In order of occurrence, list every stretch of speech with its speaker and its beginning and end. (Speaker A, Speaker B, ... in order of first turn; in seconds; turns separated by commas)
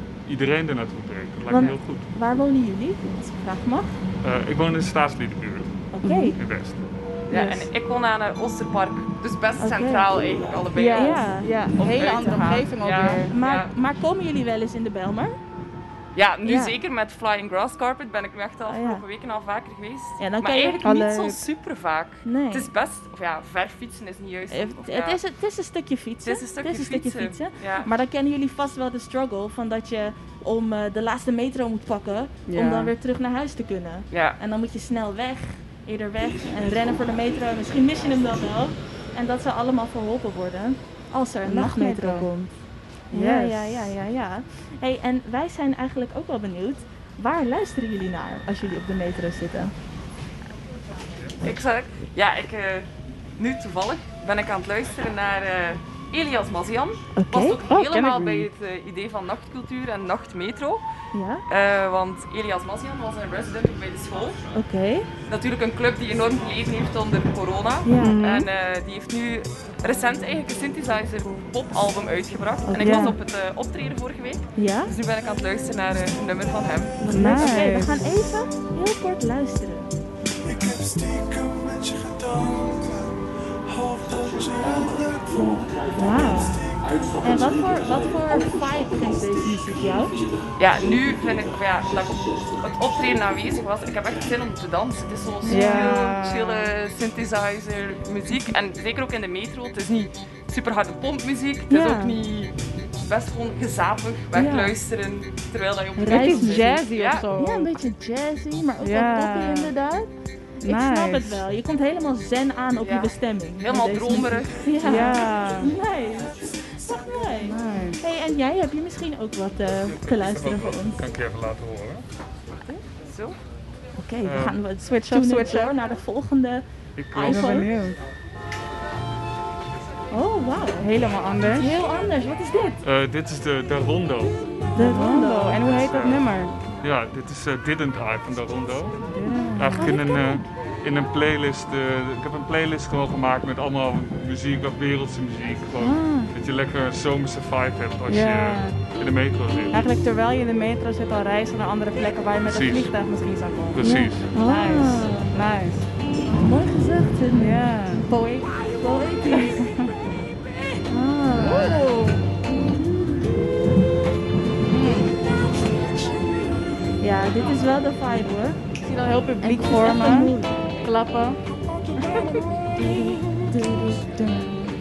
Speaker A: 0.2-2.1, Speaker B: 1.5-4.0, Speaker A: 4.2-6.8, Speaker B: 5.9-6.4, Speaker C: 6.0-6.3, Speaker D: 7.3-13.7, Speaker B: 7.3-7.6, Speaker B: 9.6-10.1, Speaker C: 10.7-13.3, Speaker B: 10.9-11.5, Speaker B: 13.3-15.4, Speaker D: 16.1-25.2, Speaker B: 16.4-16.8, Speaker B: 18.6-19.0, Speaker B: 20.2-20.9, Speaker C: 20.8-21.4, Speaker B: 22.2-22.7, Speaker B: 24.5-42.5, Speaker D: 26.2-27.9, Speaker C: 32.5-32.9, Speaker D: 34.1-34.4, Speaker C: 41.4-42.3, Speaker C: 43.1-43.9, Speaker B: 43.1-49.7, Speaker D: 51.4-60.8, Speaker B: 57.1-57.6, Speaker C: 57.7-58.5, Speaker B: 61.1-61.4, Speaker D: 61.5-64.4, Speaker B: 64.5-65.1, Speaker D: 65.3-77.0, Speaker B: 67.8-68.2, Speaker C: 68.0-68.5, Speaker B: 72.7-73.2, Speaker C: 72.8-73.2, Speaker B: 74.5-74.9, Speaker B: 77.0-79.9, Speaker C: 77.0-78.0, Speaker E: 80.5-83.1, Speaker E: 83.7-85.6, Speaker B: 85.9-86.6, Speaker B: 87.2-90.2, Speaker D: 90.6-107.3, Speaker B: 95.4-96.0, Speaker C: 95.5-96.7, Speaker B: 101.7-102.2, Speaker C: 104.3-104.8, Speaker C: 106.0-107.7, Speaker B: 106.1-110.1, Speaker C: 108.8-109.7, Speaker C: 110.6-111.4, Speaker B: 110.6-121.0, Speaker D: 112.8-114.8, Speaker C: 114.8-115.7, Speaker C: 117.4-118.0, Speaker A: 119.8-122.0, Speaker D: 123.0-123.4, Speaker B: 124.0-127.7, Speaker A: 124.2-124.6, Speaker C: 124.8-125.7, Speaker A: 127.0-127.7, Speaker C: 127.2-128.0, Speaker B: 130.1-130.9, Speaker C: 130.8-131.7, Speaker B: 131.5-132.8, Speaker A: 132.8-134.4, Speaker B: 134.7-135.6, Speaker C: 134.7-136.5, Speaker A: 135.6-136.2, Speaker A: 136.8-139.0, Speaker C: 139.0-139.9, Speaker A: 139.6-149.8, Speaker B: 139.8-140.4, Speaker B: 145.8-146.3, Speaker C: 148.1-148.8, Speaker C: 149.7-155.8, Speaker A: 152.4-152.9, Speaker A: 153.7-154.3, Speaker B: 153.8-155.4, Speaker B: 156.2-158.1, Speaker C: 157.3-158.6, Speaker B: 158.7-159.6, Speaker C: 159.2-160.0, Speaker B: 160.9-161.8, Speaker C: 161.4-162.3, Speaker C: 164.7-165.2, Speaker B: 167.0-168.6, Speaker C: 168.8-171.4, Speaker B: 169.4-170.6, Speaker C: 172.0-172.4, Speaker B: 172.7-174.3, Speaker C: 174.3-174.6